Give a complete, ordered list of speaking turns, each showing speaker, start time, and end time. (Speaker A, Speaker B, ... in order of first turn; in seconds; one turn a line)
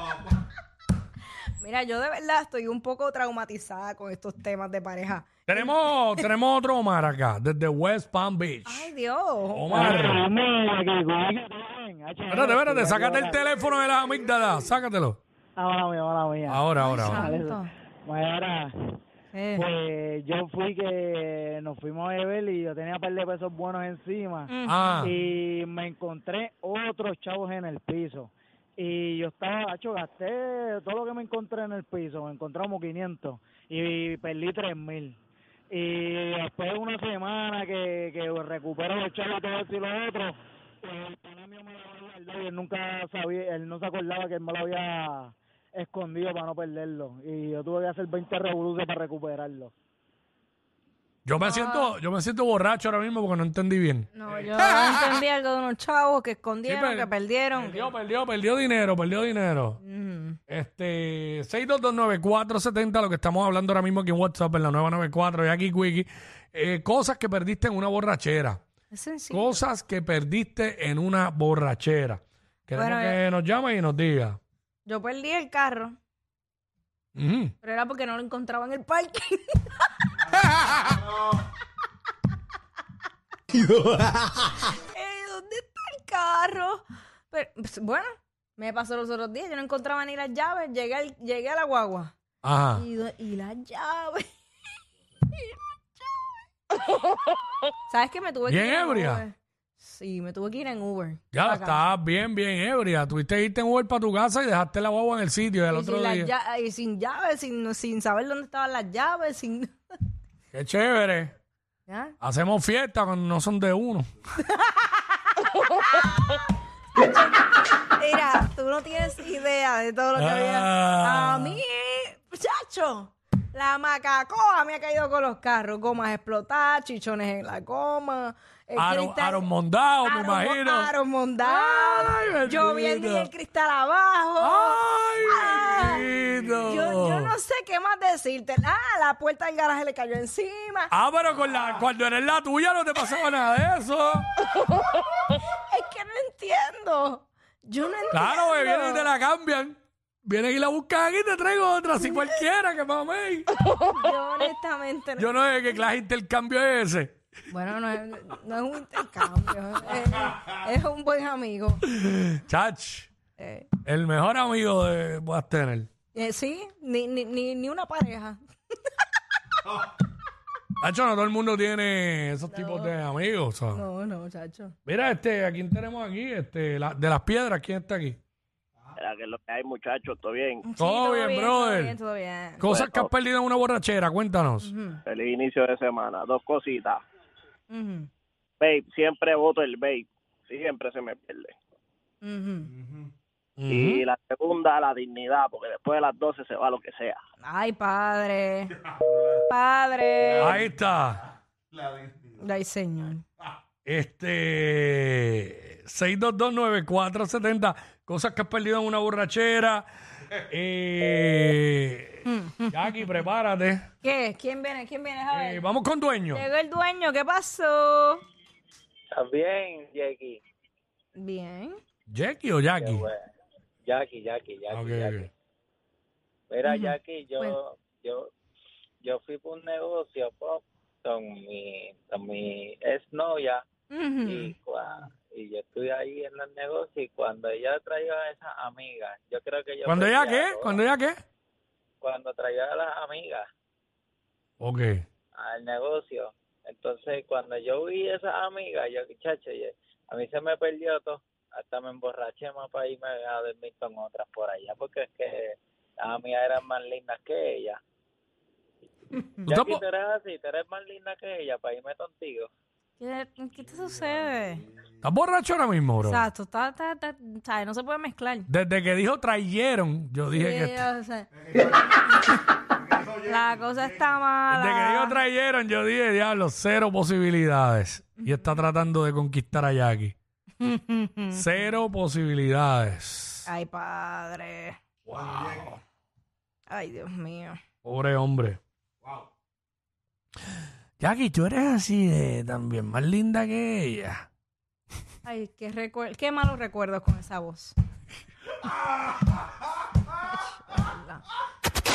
Speaker A: 1.6-6.2
Speaker B: 5.5-8.9
Speaker A: 8.7-9.8
Speaker B: 9.5-10.2
Speaker C: 9.7-13.4
Speaker B: 12.3-15.2
Speaker C: 15.6-18.7
Speaker B: 16.5-17.3
Speaker A: 16.8-17.7
Speaker A: 19.3-19.6
Speaker C: 19.6-24.5
Speaker A: 24.5-25.1
Speaker B: 24.7-25.1
Speaker C: 25.0-35.2
Speaker C: 35.7-49.7
Speaker B: 51.2-54.1
Speaker A: 51.4-51.9
Speaker A: 54.1-57.9
Speaker B: 56.6-59.8
Speaker A: 59.8-60.4
Speaker B: 60.5-68.6
Speaker A: 68.9-69.6
Speaker B: 69.3-74.4
Speaker A: 72.8-73.2
Speaker A: 74.8-75.9
Speaker B: 77.2-77.5
Speaker A: 77.6-79.8
Speaker A: 84.6-92.1
Speaker B: 92.4-92.8
Speaker A: 92.7-94.3
Speaker A: 95.3-96.2
Speaker A: 97.9-101.8
Speaker B: 98.5-99.2
Speaker B: 101.3-106.3
Speaker A: 105.7-109.7
Speaker B: 110.5-111.3
Speaker A: 111.9-112.1
Speaker B: 112.2-114.1
Speaker A: 114.5-116.3
Speaker A: 116.9-129.5
Speaker B: 120.2-121.6
Speaker B: 128.8-130.9
Speaker A: 130.0-136.0
Speaker B: 131.4-133.3
Speaker B: 134.4-137.3
Speaker A: 136.6-140.9
Speaker B: 140.9-144.3
Speaker A: 145.3-149.1
Speaker B: 148.1-153.5
Speaker A: 153.7-155.3
Speaker B: 155.2-157.1
Speaker A: 157.5-161.8
Speaker B: 162.0-163.1
Speaker A: 163.4-163.7
Speaker B: 163.8-165.9
Speaker A: 166.1-168.4
Speaker B: 170.8-173.8
Speaker A: 172.5-172.9
Speaker A: 173.7-174.8
Speaker B: 174.8-178.2
Speaker D: 178.9-180.6
Speaker A: 180.6-182.7
Speaker B: 180.8-182.0
Speaker B: 182.6-184.7
Speaker D: 182.6-183.1
Speaker A: 184.6-185.0
Speaker D: 185.1-187.0
Speaker A: 187.7-188.1
Speaker D: 188.6-191.5
Speaker A: 192.2-192.7
Speaker B: 193.6-194.0
Speaker D: 193.7-197.2
Speaker A: 197.4-198.8
Speaker A: 199.3-200.6
Speaker B: 200.4-201.2
Speaker A: 202.4-203.2
Speaker B: 203.8-209.9
Speaker B: 210.4-213.8
Speaker A: 212.2-213.1
Speaker A: 214.0-215.6
Speaker B: 215.3-216.4
Speaker A: 216.3-218.2
Speaker E: 219.1-220.4
Speaker A: 221.1-221.8
Speaker B: 222.1-223.1
Speaker E: 222.8-223.2
Speaker E: 223.8-225.3
Speaker B: 224.7-225.3
Speaker E: 226.5-228.3
Speaker A: 226.7-227.6
Speaker E: 229.0-233.6
Speaker A: 233.9-234.5
Speaker E: 234.2-240.9
Speaker B: 239.8-241.2
Speaker E: 242.0-243.4
Speaker B: 244.6-245.0
Speaker E: 245.3-257.8
Speaker B: 259.4-259.8
Speaker E: 259.5-262.5
Speaker A: 263.0-264.6
Speaker B: 265.0-266.3
Speaker A: 266.0-268.5
Speaker B: 268.5-270.9
Speaker A: 270.3-271.3
Speaker A: 273.2-275.2
Speaker B: 274.5-280.1
Speaker A: 278.2-278.5
Speaker A: 280.6-281.4
Speaker B: 281.3-283.4
Speaker A: 283.4-284.8
Speaker B: 285.1-285.8
Speaker A: 286.7-287.6
Speaker B: 287.8-288.6
Speaker B: 291.0-294.3
Speaker A: 295.2-297.8
Speaker A: 300.2-301.2